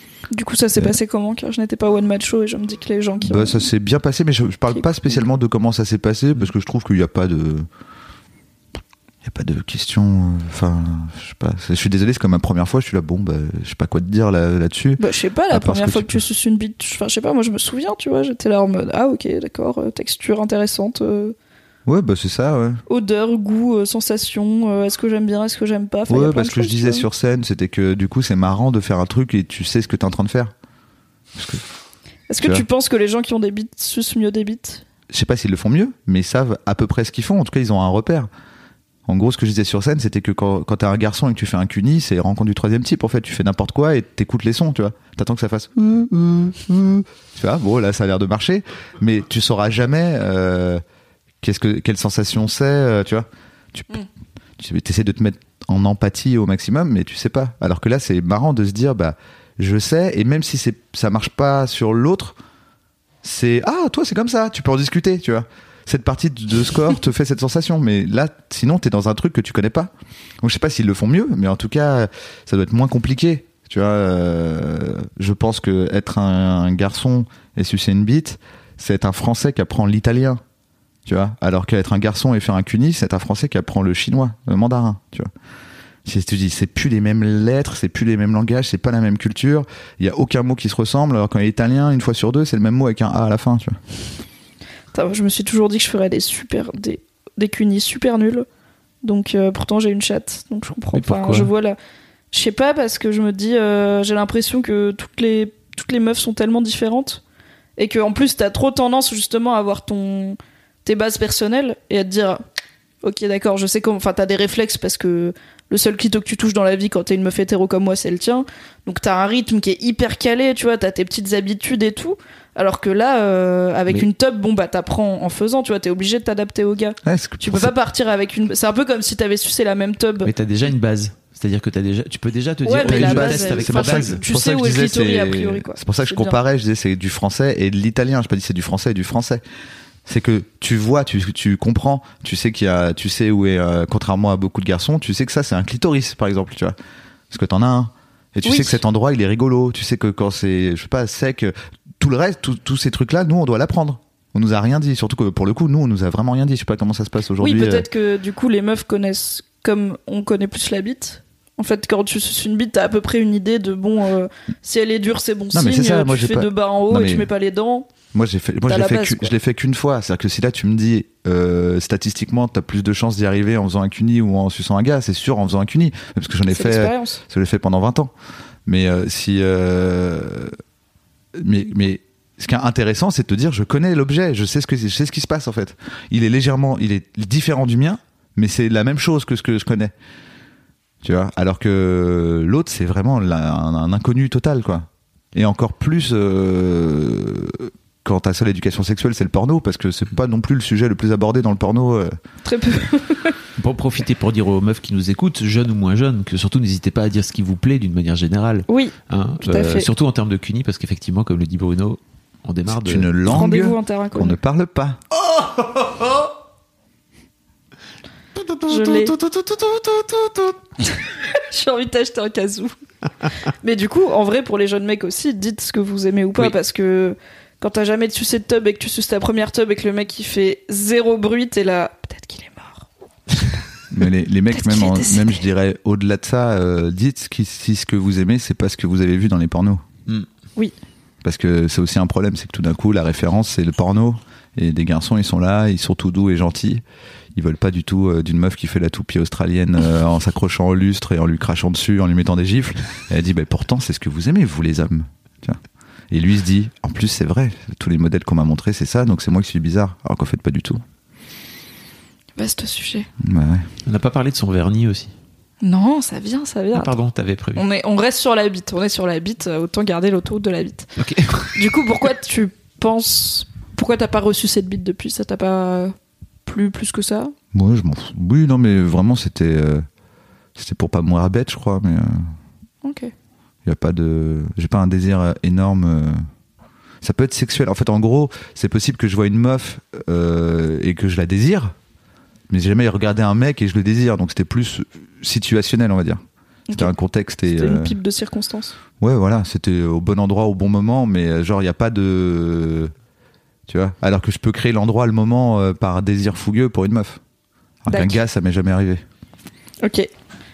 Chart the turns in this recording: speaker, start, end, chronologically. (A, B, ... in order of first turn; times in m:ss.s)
0:00.3-0:03.7 A
0:03.2-0:07.7 B
0:09.2-0:16.2 B
0:15.0-0:21.4 A
0:21.8-0:22.8 B
0:22.9-0:27.0 A
0:26.1-0:30.5 B
0:31.3-0:31.6 B
0:32.3-0:34.8 A
0:32.4-0:32.6 B
0:35.1-0:38.3 B
0:39.1-0:50.8 B
0:51.4-0:54.0 B
0:54.6-1:02.4 B
1:03.2-1:20.4 B
1:21.0-1:25.3 B
1:26.0-1:33.8 B
1:34.9-1:38.4 A
1:39.0-1:41.8 A
1:40.9-1:41.5 C
1:42.3-1:47.2 A
1:47.8-1:52.4 A
1:53.0-2:10.3 A
2:07.0-2:07.7 B
2:10.2-2:14.2 C
2:12.6-2:16.4 A
2:12.8-2:19.4 B
2:20.0-2:26.8 B
2:27.3-2:37.9 B
2:28.4-2:28.8 A
2:37.4-2:47.9 A
2:45.5-2:47.3 B
2:48.1-2:58.1 B
2:48.7-2:49.3 A
2:56.5-2:57.2 A
2:58.6-3:00.6 B
3:01.3-3:09.9 B
3:11.0-3:22.2 B
3:22.4-3:23.4 A
3:23.6-3:33.1 C
3:28.7-3:29.9 A
3:32.7-3:35.0 B
3:33.2-3:34.4 A
3:35.1-3:36.3 C
3:38.4-3:40.6 C
3:38.6-3:39.2 A
3:40.8-3:42.7 A
3:43.6-3:52.8 A
3:53.9-3:59.8 B
3:54.5-3:55.3 A
4:01.2-4:06.8 B
4:07.3-4:20.8 B
4:22.4-4:23.1 A
4:23.2-4:23.7 B
4:23.8-4:25.1 C
4:25.6-4:26.9 A
4:26.7-4:27.6 C
4:27.5-4:30.9 A
4:31.0-4:31.7 C
4:31.5-4:35.9 A
4:36.4-4:37.3 A
4:37.5-4:39.8 B
4:40.6-4:42.3 B
4:42.8-4:43.1 A
4:43.6-4:46.2 B
4:47.0-4:51.7 B
4:52.5-4:58.0 B
4:57.5-4:58.7 A
4:59.0-5:02.9 B
5:03.7-5:07.2 B
5:07.8-5:09.0 B
5:07.9-5:08.2 A
5:09.8-5:10.1 A